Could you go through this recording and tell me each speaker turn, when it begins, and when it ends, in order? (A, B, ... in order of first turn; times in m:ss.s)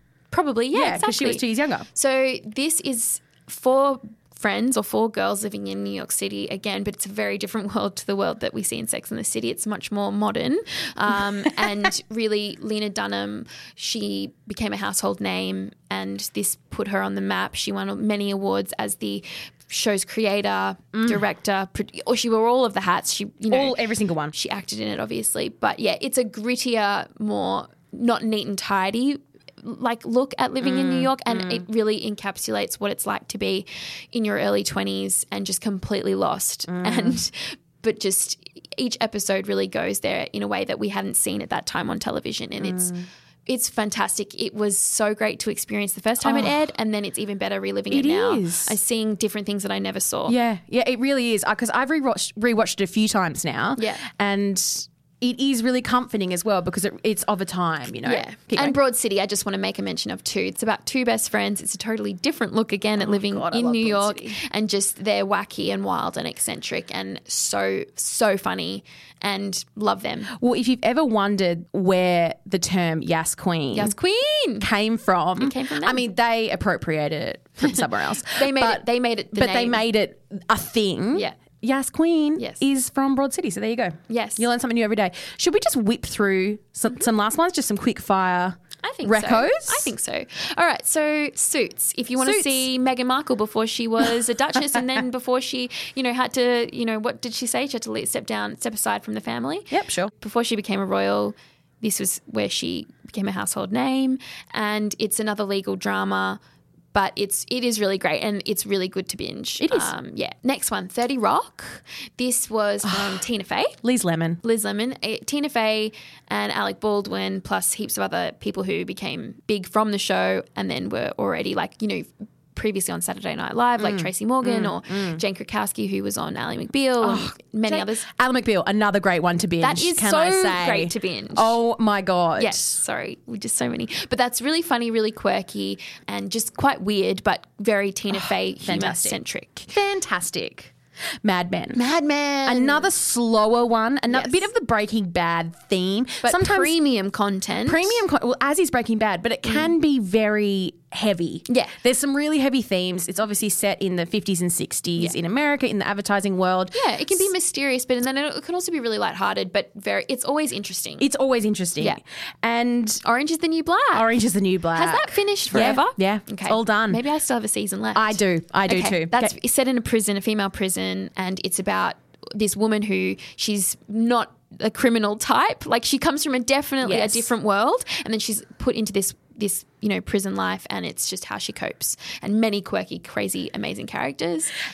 0:00.3-0:50.4 A
0:00.7-0:01.9 B
0:20.9-0:21.2 B
0:23.5-0:24.4 B
0:30.6-0:31.6 B
0:36.7-0:37.2 B
0:42.6-0:43.0 B
0:46.2-0:46.6 B
0:47.9-0:48.8 B
0:50.3-0:58.8 B
0:53.8-0:54.0 A
0:58.0-1:10.3 A
1:03.0-1:04.3 B
1:10.3-1:13.9 B
1:13.7-1:14.7 A
1:14.6-1:29.9 B
1:15.4-1:16.0 A
1:18.3-1:19.8 A
1:21.1-1:21.4 A
1:24.1-1:24.5 A
1:28.8-1:46.4 A
1:32.2-1:32.6 B
1:39.7-1:40.1 B
1:46.9-1:53.8 A
1:49.6-1:49.9 B
1:52.8-1:53.2 B
1:53.8-1:54.4 B
1:54.4-2:08.0 A
2:03.8-2:05.2 B
2:07.0-2:12.8 B
2:09.6-2:11.6 A
2:12.4-2:19.7 A
2:18.1-2:19.2 B
2:19.7-2:20.7 B
2:21.2-2:21.8 B
2:21.7-2:22.9 A
2:22.5-2:26.8 B
2:24.1-2:24.5 A
2:26.2-2:28.0 A
2:27.7-2:37.3 B
2:29.5-2:29.7 A
2:31.5-2:31.8 A
2:36.7-2:41.1 A
2:41.0-2:43.0 B
2:43.0-2:44.1 A
2:43.9-2:47.0 B
2:44.7-3:04.5 A
2:48.0-2:49.3 B
2:56.8-2:57.3 B